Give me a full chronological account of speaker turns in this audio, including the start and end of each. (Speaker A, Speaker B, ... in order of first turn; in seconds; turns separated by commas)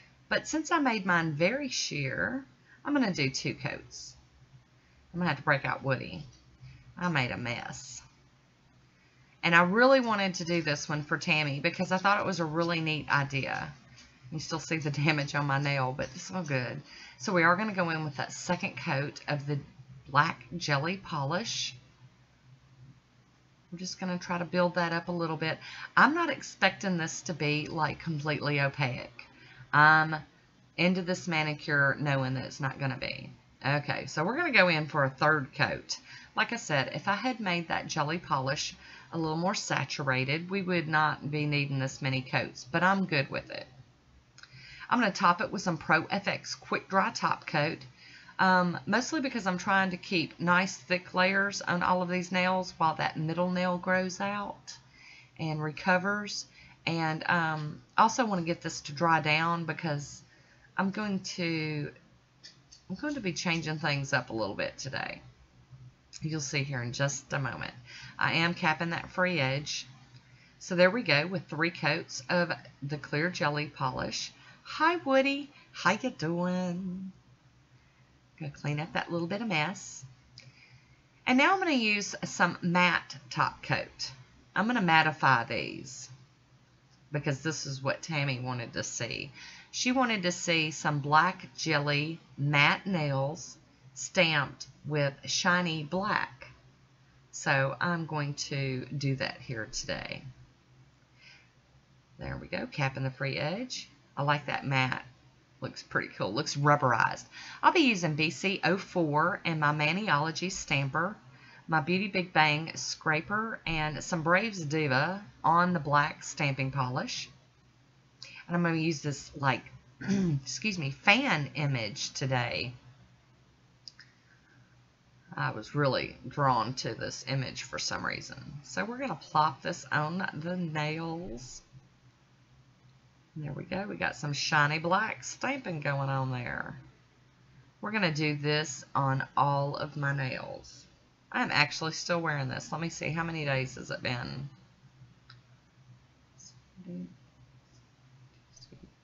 Speaker A: 0.3-4.2, Speaker A: 5.1-6.3, Speaker A: 7.0-8.0, Speaker A: 9.4-13.7, Speaker A: 14.3-21.8, Speaker A: 23.7-30.2, Speaker A: 30.8-43.7, Speaker A: 44.9-47.9, Speaker A: 48.4-54.8, Speaker A: 55.4-60.2, Speaker A: 60.8-61.9, Speaker A: 62.9-65.2, Speaker A: 66.2-69.9, Speaker A: 70.6-77.1, Speaker A: 78.4-80.1, Speaker A: 81.2-86.1, Speaker A: 87.1-96.5, Speaker A: 97.3-100.2, Speaker A: 102.2-105.1, Speaker A: 105.6-117.3, Speaker A: 118.5-122.7, Speaker A: 125.3-131.6, Speaker A: 133.3-136.8, Speaker A: 137.8-144.5, Speaker A: 146.4-147.1, Speaker A: 148.5-148.9